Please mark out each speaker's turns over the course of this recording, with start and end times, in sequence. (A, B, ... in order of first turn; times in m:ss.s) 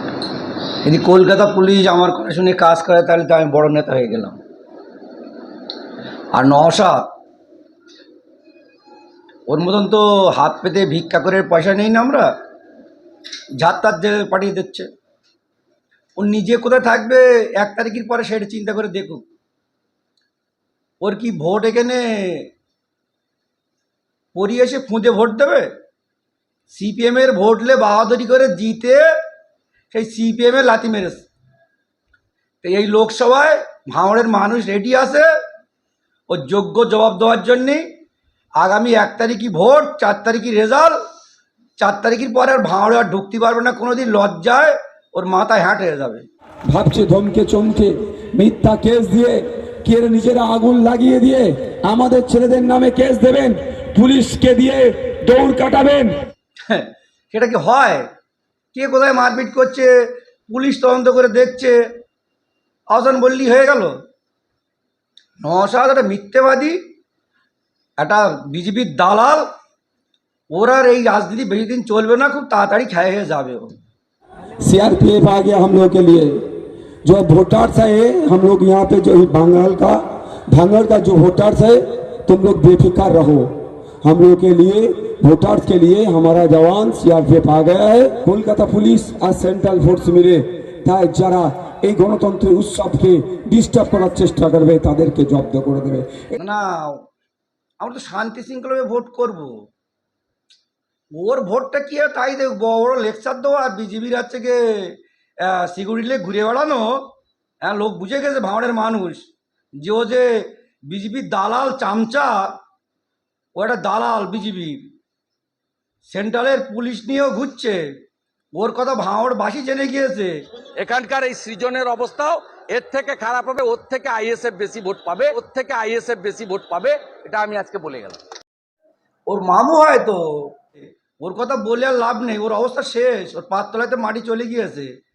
0:00.8-0:04.4 A
0:06.3-0:07.1 A
0:09.5-0:12.3 A
0:13.6-0:14.9 A
0:16.2-0:19.2 A
0:21.0-0:22.5 A
0:24.3-0:25.7 A
0:26.7-0:29.1 A
0:29.9-0:31.2 A
0:32.6-0:35.3 A
0:36.3-0:37.8 A
0:38.6-0:41.0 A
0:41.8-0:46.3 A
0:46.7-0:56.2 B
0:56.7-0:58.1 A
0:58.7-1:01.8 A
1:02.9-1:04.0 A
1:05.4-1:06.8 A
1:08.0-1:09.5 A
1:10.5-1:13.7 A
1:14.6-1:16.4 B
1:17.0-1:23.5 B
1:24.0-1:36.3 B
1:36.4-1:37.0 A
1:37.8-1:39.6 A
1:41.1-1:47.1 A
1:47.6-1:49.3 A
1:49.8-1:52.6 A
1:53.6-1:54.9 A
1:56.1-1:58.0 A
1:58.6-2:00.4 A
2:00.8-2:08.2 C
2:09.3-2:15.0 A